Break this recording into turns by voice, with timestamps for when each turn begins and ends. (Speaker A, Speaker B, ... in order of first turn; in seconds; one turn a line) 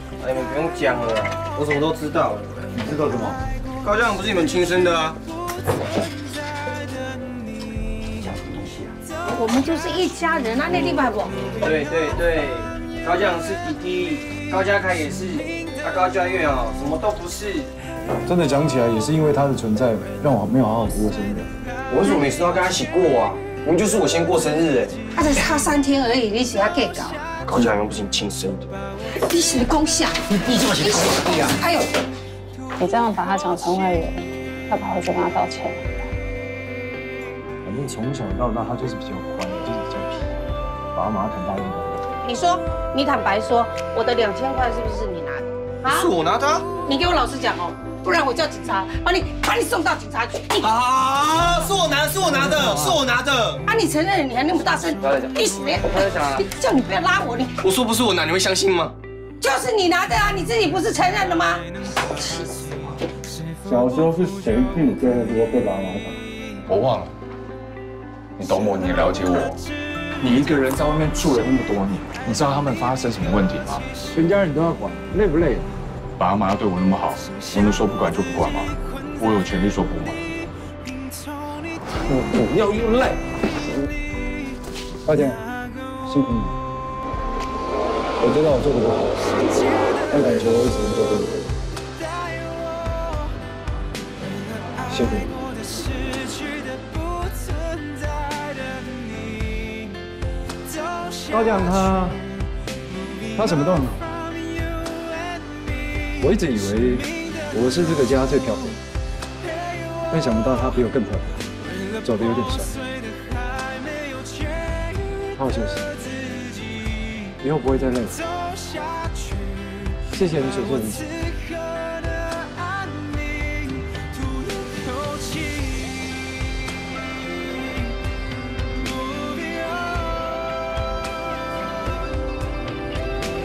Speaker A: 0.2-2.5
Speaker B: 2.7-3.4
Speaker A: 3.8-5.2
Speaker C: 9.3-11.4
Speaker A: 11.5-17.7
Speaker B: 18.2-21.5
Speaker A: 21.9-25.0
Speaker C: 25.1-27.2
Speaker A: 27.4-28.7
Speaker C: 29.2-31.9
Speaker D: 32.8-36.0
Speaker B: 37.6-40.3
Speaker B: 40.9-42.0
Speaker C: 42.2-46.1
Speaker A: 45.9-46.7
Speaker C: 46.8-50.7
Speaker A: 50.6-53.6
Speaker C: 53.6-57.6
Speaker A: 55.0-56.4
Speaker A: 57.6-58.9
Speaker C: 59.4-62.4
Speaker B: 63.6-66.2
Speaker E: 66.7-67.1
Speaker E: 68.4-69.6
Speaker E: 70.2-73.8
Speaker B: 74.1-75.7
Speaker E: 76.2-80.3
Speaker B: 82.1-83.2
Speaker B: 85.0-85.4
Speaker B: 86.0-86.5
Speaker B: 88.2-89.2
Speaker B: 90.1-91.4
Speaker B: 94.8-95.3
Speaker B: 101.3-102.2
Speaker B: 103.3-104.2
Speaker B: 106.2-108.8
Speaker B: 110.1-111.4
Speaker B: 112.0-112.7
Speaker B: 115.3-115.9
Speaker B: 117.4-118.2
Speaker B: 120.1-121.1